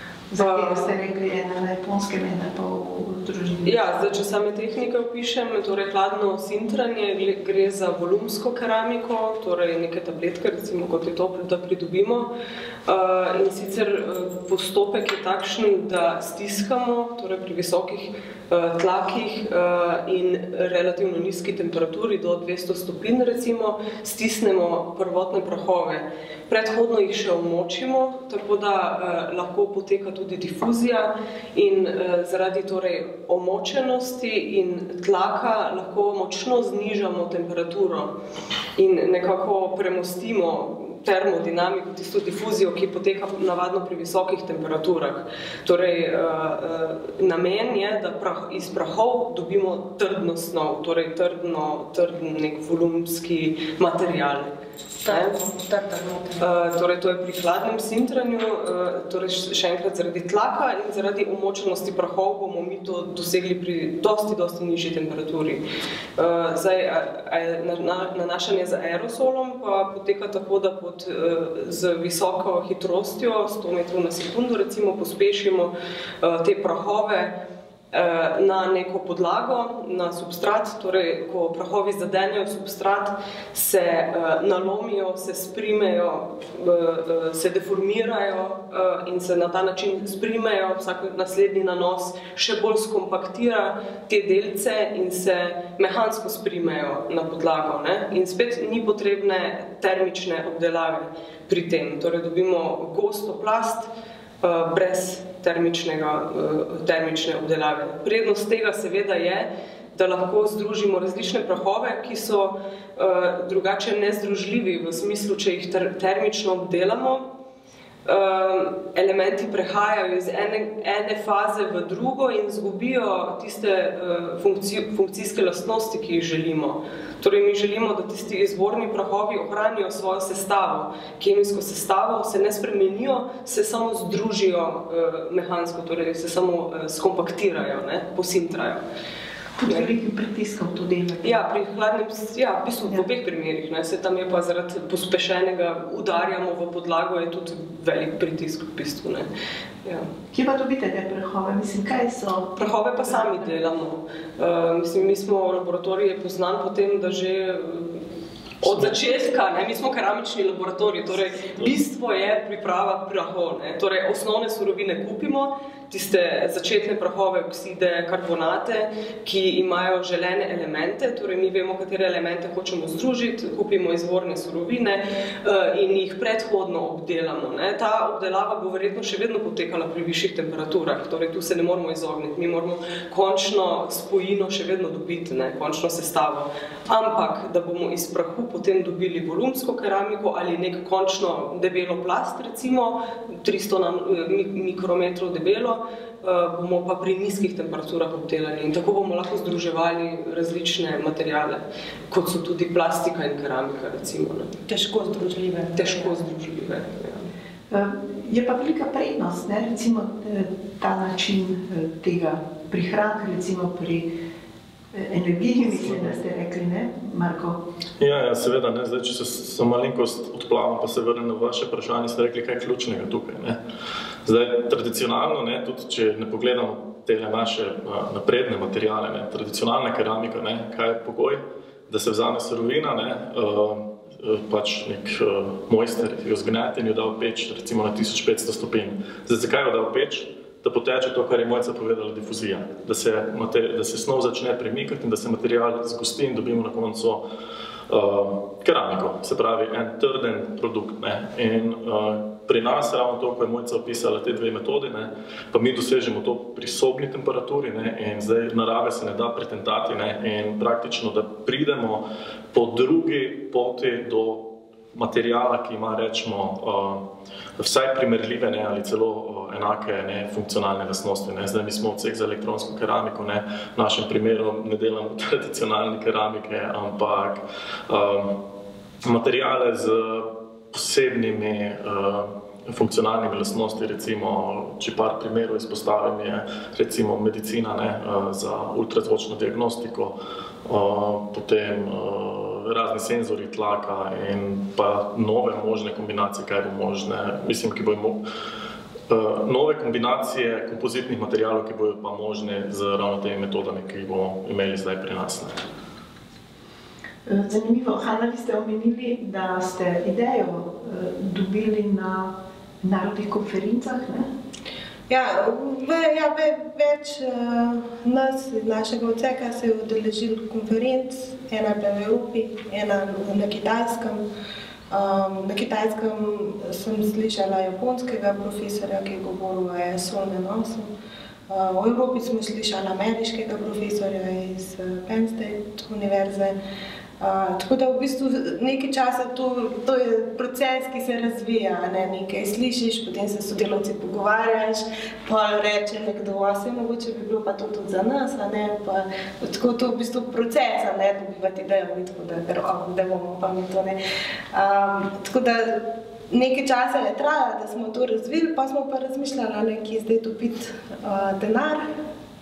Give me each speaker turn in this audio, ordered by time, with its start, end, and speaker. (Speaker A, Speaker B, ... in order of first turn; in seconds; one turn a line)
Speaker A: 0.3-4.1
Speaker B: 0.4-0.9
Speaker B: 3.6-12.3
Speaker B: 12.9-38.1
Speaker B: 38.8-54.5
Speaker C: 55.0-56.5
Speaker B: 55.0-55.4
Speaker B: 56.4-65.6
Speaker B: 66.2-77.3
Speaker B: 77.9-103.9
Speaker B: 104.4-117.3
Speaker B: 118.0-138.8
Speaker A: 139.6-141.4
Speaker B: 141.2-149.3
Speaker A: 150.3-153.3
Speaker B: 152.6-158.0
Speaker B: 158.6-204.5
Speaker C: 204.7-206.2
Speaker B: 205.8-207.3
Speaker A: 207.7-214.1
Speaker A: 214.9-217.6
Speaker D: 218.0-223.6
Speaker D: 224.2-247.2
Speaker D: 247.9-267.0
Speaker D: 267.6-278.4
Speaker D: 279.0-298.2
Speaker D: 299.1-305.6
Speaker A: 307.3-314.3
Speaker C: 315.1-324.2
Speaker C: 324.9-330.9
Speaker C: 331.5-336.6
Speaker C: 337.2-354.0
Speaker C: 354.5-361.8